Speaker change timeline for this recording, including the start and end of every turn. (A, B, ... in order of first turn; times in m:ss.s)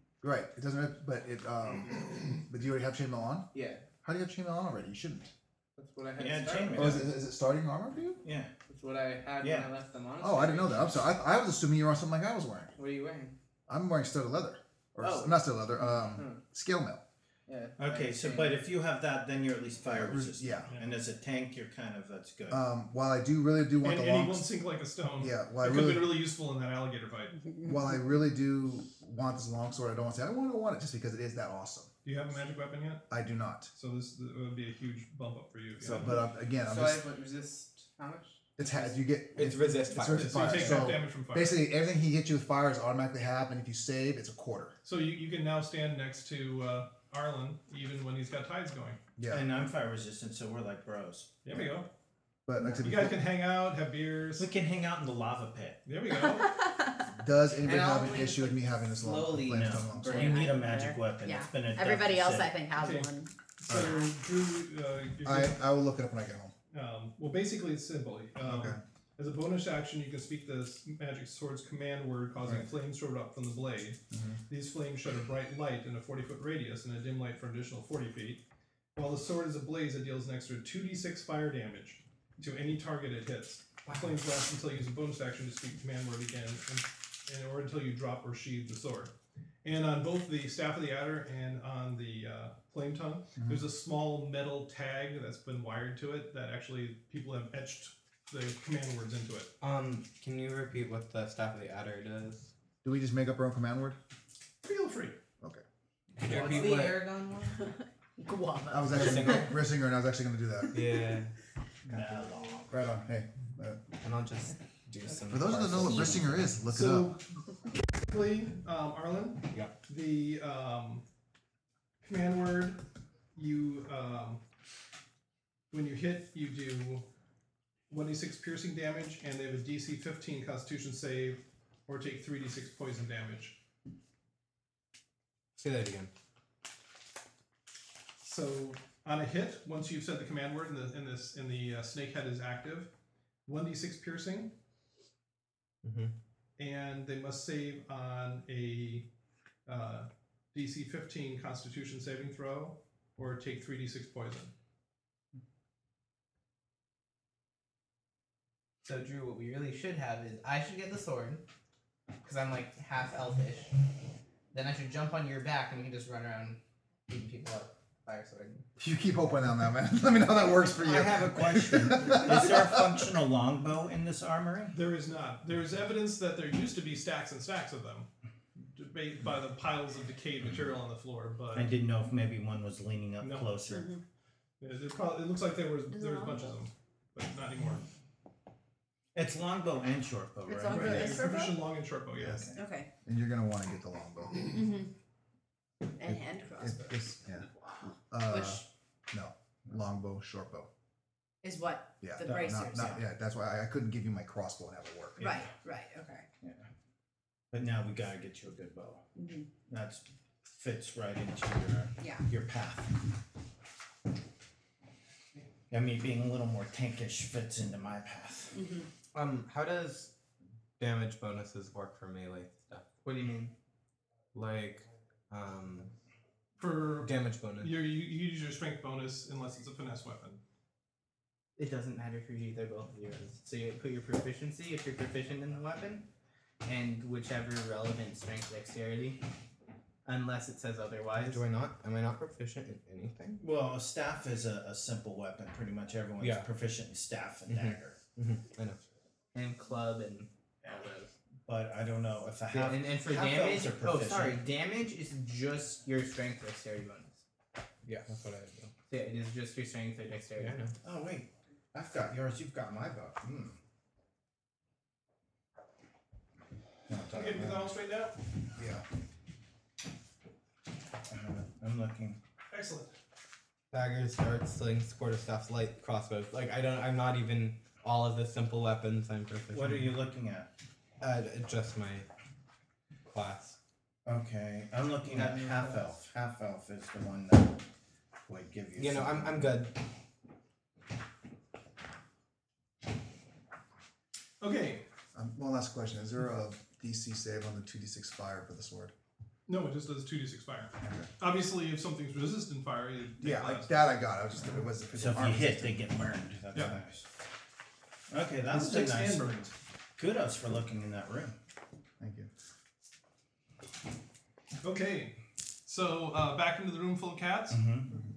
0:00.2-0:03.5 A
0:03.5-0:03.8 B
0:04.0-0:05.3 A
0:05.8-0:07.0 B
0:06.1-0:07.1 C
0:06.7-0:08.2 A
0:08.2-0:08.5 C
0:08.7-0:10.9 B
0:09.4-0:09.7 C
0:10.2-0:12.8 A
0:12.8-0:13.3 B
0:13.7-0:17.0 A
0:15.0-0:16.4 B
0:17.5-0:18.6 B
0:17.8-0:22.6 C
0:19.9-0:20.7 A
0:22.5-0:24.5 A
0:23.8-0:27.4 D
0:25.2-0:26.2 A
0:27.6-0:31.9 A
0:32.0-0:33.1 D
0:33.1-0:33.7 A
0:33.7-0:36.1 D
0:35.8-0:37.0 A
0:36.6-0:38.9 B
0:38.6-0:44.7 A
0:39.3-0:41.0 E
0:40.0-0:41.6 D
0:44.8-0:49.0 D
0:49.2-0:49.5 A
0:49.3-0:51.3 C
0:51.4-0:51.9 D
0:52.4-0:53.2 A
0:52.7-0:54.5 D
0:54.4-0:55.8 C
0:55.8-0:56.6 D
0:56.2-0:57.1 F
0:57.1-1:00.3 A
0:57.6-1:00.7 B
0:59.5-1:02.5 C
1:00.1-1:04.1 F
1:02.8-1:05.6 D
1:03.7-1:03.9 A
1:05.2-1:06.5 A
1:06.7-1:18.4 D
1:08.4-1:08.8 A
1:14.1-1:14.4 A
1:18.9-1:39.5 D
1:33.4-1:33.6 A
1:39.6-1:42.5 E
1:42.8-1:44.0 A
1:44.6-1:45.2 D
1:46.2-1:47.0 E
1:46.2-1:47.7 B
1:46.3-1:46.8 C
1:47.6-1:49.5 F
1:48.7-1:50.8 A
1:48.9-1:49.5 E
1:50.7-1:51.3 E
1:51.9-1:52.7 C
1:52.7-1:53.8 A
1:54.0-1:56.5 E
1:55.3-1:57.2 A
1:55.8-1:56.2 F
1:56.7-2:01.0 D
2:02.0-2:02.8 D
2:03.4-2:04.4 D
2:05.7-2:07.1 D
2:07.9-2:13.6 D
2:15.6-2:16.1 E
2:18.2-2:22.9 D
2:23.4-2:24.5 D
2:25.8-2:26.1 E
2:26.6-2:29.1 D
2:29.6-2:34.5 D
2:38.8-2:41.4 B
2:42.2-2:43.7 B
2:44.5-2:48.6 B
2:48.8-2:53.1 A
2:50.8-2:54.7 C
2:54.7-2:58.1 D
2:58.7-3:01.7 D
3:01.5-3:03.9 C
3:03.2-3:03.5 D
3:03.6-3:04.0 F
3:04.6-3:07.8 D
3:05.9-3:06.5 F
3:09.1-3:11.3 C
3:10.4-3:11.6 F
3:10.7-3:12.5 D
3:12.2-3:14.6 A
3:12.5-3:12.9 F
3:14.4-3:14.9 F
3:16.0-3:18.6 F
3:16.6-3:17.5 A
3:18.0-3:20.7 A
3:21.4-3:23.0 F
3:22.0-3:25.4 A
3:25.2-3:26.3 F
3:26.4-3:26.7 C
3:27.5-3:29.1 C
3:29.2-3:29.5 F
3:29.7-3:33.0 C
3:32.0-3:32.2 F
3:35.7-3:38.6 C
3:38.5-3:38.9 F
3:39.1-3:40.1 E
3:40.8-3:43.0 E
3:43.0-3:43.5 B
3:44.3-3:45.9 E
3:46.6-3:50.4 D
3:47.0-3:47.8 E
3:51.6-3:56.1 B
3:56.6-3:59.2 B
4:00.0-4:01.4 B
4:01.2-4:03.4 E
4:03.4-4:08.0 C
4:06.2-4:06.5 E
4:07.5-4:08.8 E
4:09.3-4:11.1 B
4:11.4-4:14.4 C
4:12.5-4:17.2 B
4:17.8-4:18.7 E
4:18.8-4:20.6 B
4:20.4-4:20.7 E
4:20.8-4:23.6 C
4:26.9-4:27.7 A
4:27.1-4:28.2 D
4:28.5-4:28.8 A
4:31.1-4:32.2 C
4:32.5-4:32.9 D
4:33.7-4:39.9 E
4:39.5-4:40.5 C
4:41.0-4:42.1 E
4:43.0-4:43.6 E
4:44.0-4:47.6 C
4:45.1-4:45.9 B
4:48.2-4:49.6 C
4:48.8-4:49.8 E
4:54.4-4:54.8 D
4:55.1-4:58.9 A
4:59.5-5:03.8 D
5:00.8-5:01.1 A
5:03.2-5:05.9 A
5:05.0-5:07.1 C
5:08.1-5:11.4 C
5:08.5-5:09.5 D
5:12.0-5:12.3 A
5:14.6-5:17.6 D
5:17.5-5:18.0 C